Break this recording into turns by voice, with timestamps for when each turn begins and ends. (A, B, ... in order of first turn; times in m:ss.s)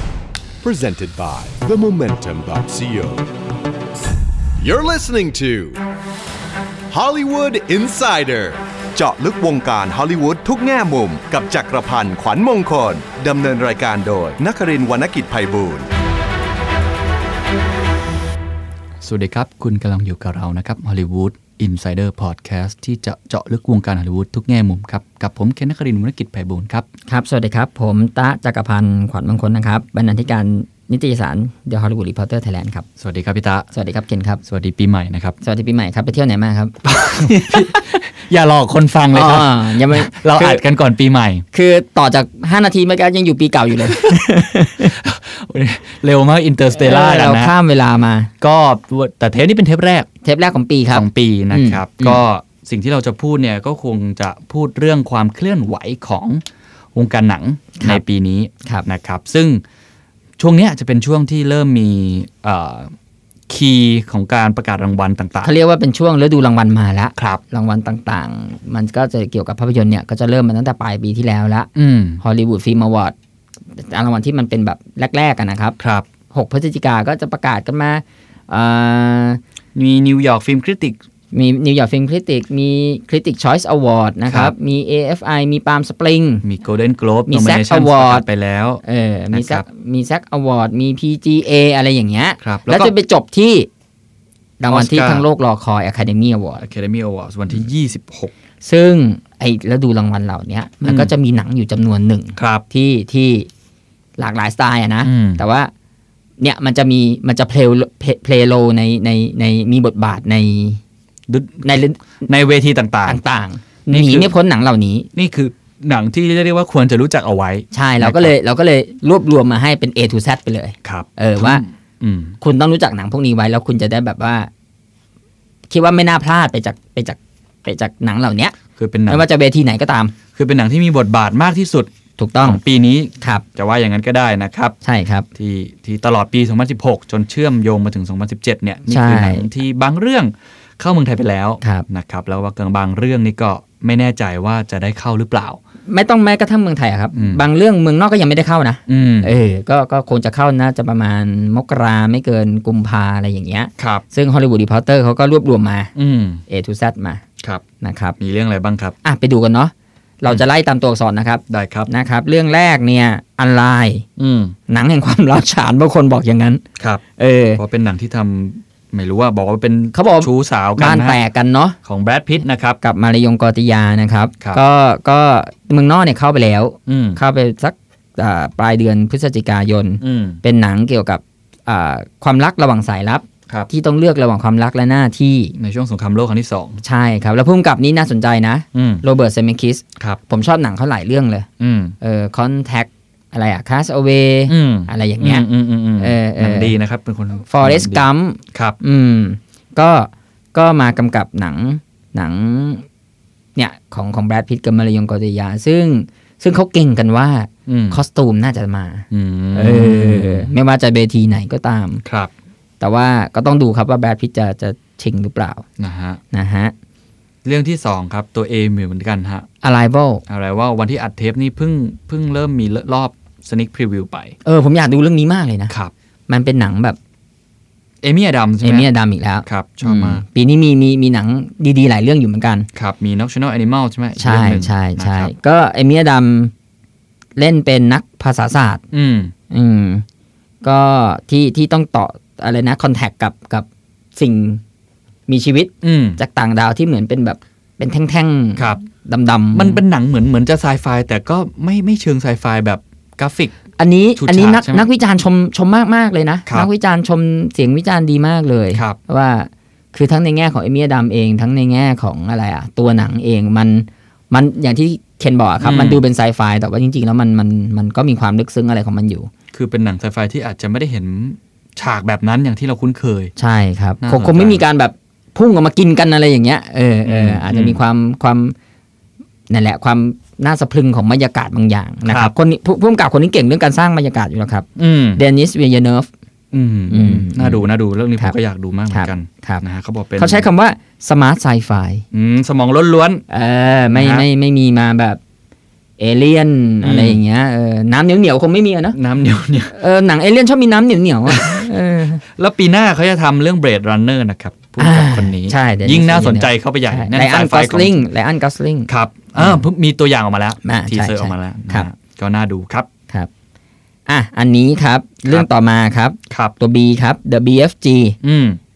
0:00.6-0:03.3 A
0:04.6-0:05.8 A
0:06.9-0:15.9 A
0:19.0-0:26.9 B
0:27.1-0:32.8 C
0:33.0-0:33.7 B
0:33.7-0:34.4 C
0:34.4-0:35.4 B
0:35.4-0:38.0 C
0:36.8-0:41.4 B
0:39.1-0:40.6 C
0:41.5-0:45.0 C
0:43.8-0:44.2 B
0:44.8-0:47.5 B
0:46.8-0:48.3 C
0:48.4-0:50.1 B
0:50.2-0:52.2 C
0:50.9-0:56.4 B
0:57.0-0:59.6 B
0:57.8-0:58.0 C
1:00.4-1:02.9 B
1:03.5-1:05.5 B
1:05.4-1:11.7 C
1:11.8-1:12.2 B
1:12.2-1:13.2 C
1:13.8-1:15.8 C
1:15.8-1:16.1 B
1:16.3-1:19.4 C
1:19.8-1:21.0 B
1:21.3-1:26.4 C
1:24.3-1:24.5 B
1:26.4-1:29.6 B
1:27.3-1:28.2 C
1:28.8-1:33.7 C
1:32.4-1:32.9 B
1:34.6-1:36.6 C
1:34.7-1:35.3 B
1:36.6-1:38.3 B
1:38.6-1:43.5 C
1:40.8-1:41.1 B
1:42.4-1:42.6 B
1:44.2-1:45.7 C
1:45.0-1:45.4 B
1:46.4-1:50.8 C
1:51.3-1:51.7 B
1:51.6-1:52.0 C
1:52.3-1:53.2 B
1:53.0-1:55.1 C
1:53.9-1:54.3 B
1:55.2-1:58.3 B
1:57.7-2:01.6 C
2:00.8-2:02.4 B
2:02.4-2:04.5 C
2:05.7-2:08.6 C
2:08.8-2:09.2 B
2:09.1-2:10.1 C
2:10.4-2:11.9 B
2:12.2-2:12.6 C
2:12.4-2:14.8 B
2:14.8-2:15.3 C
2:15.4-2:25.6 B
2:18.9-2:19.4 C
2:25.9-2:35.9 C
2:27.1-2:27.4 B
2:28.9-2:29.3 B
2:33.8-2:34.0 B
2:36.0-2:36.4 B
2:36.5-2:37.2 C
2:37.8-2:38.2 C
2:38.2-2:39.0 B
2:39.0-2:44.0 C
2:41.5-2:41.9 B
2:44.2-2:44.6 B
2:44.7-2:46.6 C
2:46.8-2:47.0 B
2:47.2-2:47.6 C
2:47.6-2:51.2 B
2:49.9-2:51.8 C
2:51.8-2:52.8 B
2:52.8-3:05.5 C
2:56.9-2:57.2 B
3:00.0-3:00.4 B
3:05.6-3:06.8 B
3:06.8-3:11.5 C
3:08.7-3:09.0 B
3:11.6-3:12.0 B
3:12.0-3:15.4 C
3:14.5-3:18.8 B
3:16.0-3:16.7 C
3:17.5-3:22.9 C
3:23.6-3:32.0 C
3:27.7-3:28.0 B
3:29.1-3:30.5 B
3:32.0-3:32.3 B
3:32.8-3:35.6 C
3:35.8-3:36.2 B
3:36.3-3:36.7 C
3:37.4-3:39.5 B
3:39.6-3:40.2 C
3:40.3-3:44.4 B
3:44.4-3:45.7 C
3:46.3-3:47.0 C
3:48.0-3:48.9 B
3:48.6-3:52.7 C
3:49.5-3:50.2 B
3:52.7-3:55.3 B
3:54.2-3:56.5 C
3:57.4-3:58.8 C
3:58.9-3:59.3 B
3:59.5-4:00.0 C
4:00.6-4:04.6 C
4:05.3-4:09.8 C
4:05.8-4:06.2 B
4:09.5-4:13.6 B
4:13.8-4:29.3 C
4:14.2-4:14.9 B
4:25.6-4:26.0 B
4:29.5-4:33.3 B
4:33.4-4:38.6 C
4:34.0-4:34.6 B
4:37.0-4:37.8 B
4:39.5-4:46.1 C
4:42.1-4:42.3 B
4:44.8-4:45.2 B
4:46.5-4:50.5 B
4:46.9-4:47.6 C
4:48.9-4:49.6 C
4:50.2-4:52.0 C
4:52.1-4:53.2 B
4:53.3-4:55.2 C
4:53.9-4:54.3 B
4:56.0-4:59.0 C
4:56.8-4:57.2 B
4:58.9-4:59.7 B
4:59.7-5:02.2 C
5:01.3-5:01.7 B
5:02.2-5:08.0 B
5:04.8-5:09.6 C
5:08.9-5:12.9 B
5:10.6-5:11.9 C
5:14.1-5:18.2 C
5:18.2-5:18.6 B